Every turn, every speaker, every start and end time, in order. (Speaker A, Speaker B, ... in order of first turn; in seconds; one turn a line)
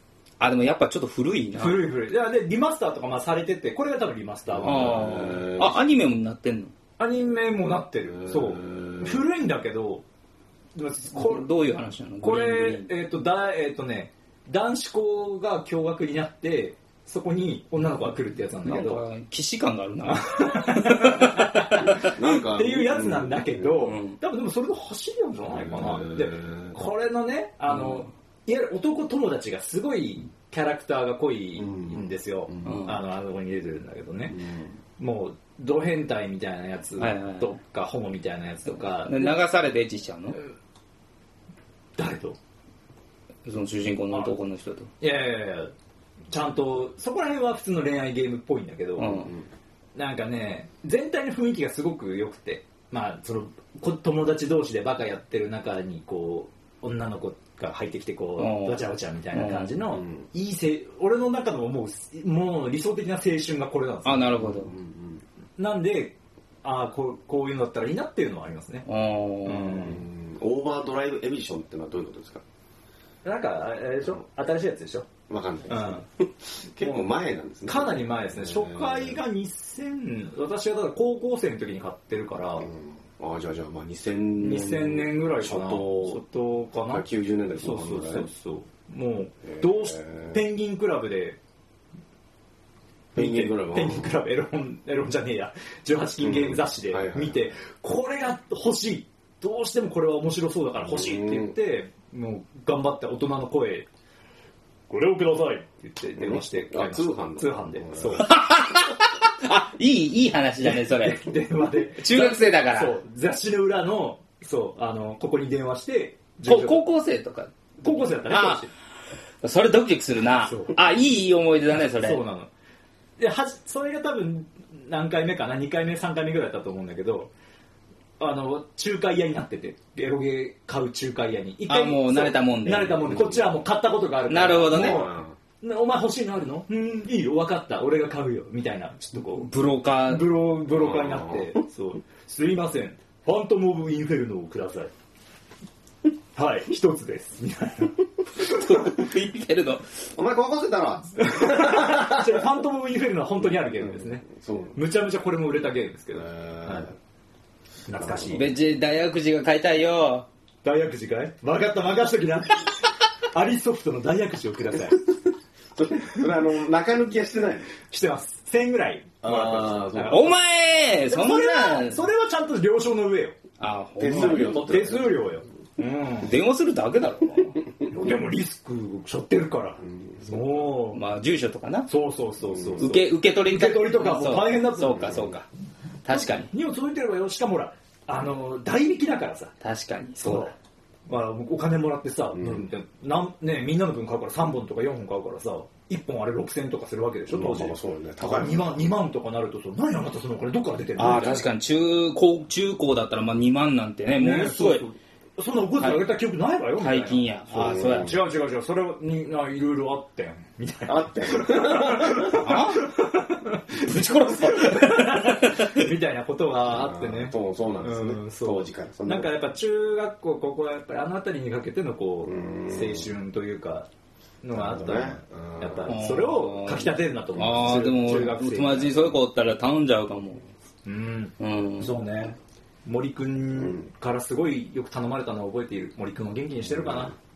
Speaker A: 0.4-1.8
Speaker B: 1.6-5.2
Speaker C: 4.5-5.8
Speaker A: 4.6-6.7
Speaker B: 7.0-10.0
Speaker C: 8.2-9.3
Speaker B: 10.8-11.4
Speaker A: 11.1-12.9
Speaker B: 12.2-19.0
Speaker A: 18.6-21.9
Speaker B: 20.1-34.4
Speaker C: 22.0-23.7
Speaker A: 23.8-24.2
Speaker C: 25.5-26.8
Speaker A: 27.7-28.1
Speaker C: 31.6-32.8
Speaker A: 32.6-33.0
Speaker C: 34.3-34.8
Speaker B: 35.0-39.5
Speaker A: 37.0-37.6
Speaker A: 38.6-40.4
Speaker B: 42.0-42.4
Speaker A: 43.4-44.9
Speaker B: 45.0-45.7
Speaker B: 46.3-49.3
Speaker A: 49.0-49.3
Speaker B: 50.0-64.4
Speaker A: 58.4-59.8
Speaker C: 59.9-60.2
Speaker A: 64.0-64.7
Speaker C: 64.3-65.2
Speaker B: 65.6-68.9
Speaker A: 68.8-69.8
Speaker B: 69.4-70.1
Speaker C: 69.8-72.4
Speaker B: 73.2-75.1
Speaker C: 75.3-79.2
Speaker B: 75.7-76.0
Speaker B: 77.7-82.7
Speaker C: 82.6-86.2
Speaker B: 84.4-87.0
Speaker C: 86.9-88.3
Speaker B: 87.6-91.4
Speaker C: 89.4-90.4
Speaker B: 93.1-103.9
Speaker C: 93.1-94.1
Speaker C: 96.2-97.4
Speaker C: 100.8-101.5
Speaker B: 104.9-108.3
Speaker C: 106.2-108.3
Speaker A: 108.2-111.2
Speaker B: 110.6-116.8
Speaker A: 112.0-112.9
Speaker A: 116.4-118.7
Speaker B: 117.8-118.7
Speaker A: 119.4-122.2
Speaker B: 120.4-120.8
Speaker B: 122.0-122.5
Speaker B: 123.2-127.3
Speaker B: 128.2-139.5
Speaker A: 131.7-133.3
Speaker C: 133.1-133.4
Speaker A: 134.3-135.0
Speaker C: 134.7-135.4
Speaker A: 139.4-140.2
Speaker B: 140.1-144.9
Speaker C: 140.7-141.5
Speaker B: 146.3-147.9
Speaker A: 148.4-149.9
Speaker C: 150.2-152.4
Speaker B: 151.2-156.9
Speaker C: 153.8-154.8
Speaker C: 156.1-156.9
Speaker B: 157.9-158.5
Speaker C: 158.0-158.4
Speaker A: 158.3-160.3
Speaker B: 160.6-165.1
Speaker C: 165.8-167.7
Speaker B: 167.9-170.4
Speaker C: 169.2-170.3
Speaker A: 170.1-172.0
Speaker B: 171.1-173.4
Speaker A: 173.6-174.6
Speaker C: 174.0-175.2
Speaker B: 174.1-176.3
Speaker A: 176.2-177.6
Speaker B: 177.9-181.0
Speaker C: 179.8-180.7
Speaker A: 180.9-181.9
Speaker B: 181.9-185.2
Speaker C: 182.4-182.9
Speaker A: 182.8-185.5
Speaker C: 185.0-185.3
Speaker A: 186.1-186.5
Speaker B: 186.1-189.5
Speaker A: 189.6-190.5
Speaker B: 190.2-190.5
Speaker B: 191.1-201.4
Speaker C: 192.3-192.7
Speaker C: 197.3-198.8
Speaker A: 201.0-204.9
Speaker B: 204.2-223.9
Speaker A: 205.8-206.1
Speaker A: 206.8-208.1
Speaker C: 207.5-208.2
Speaker C: 210.9-212.4
Speaker A: 212.2-212.9
Speaker A: 213.8-215.7
Speaker C: 216.6-219.4
Speaker C: 222.2-223.1
Speaker B: 224.4-229.1
Speaker C: 224.5-225.9
Speaker A: 225.9-230.4
Speaker B: 230.8-237.1
Speaker A: 231.4-231.9
Speaker C: 233.6-233.9
Speaker C: 236.6-237.2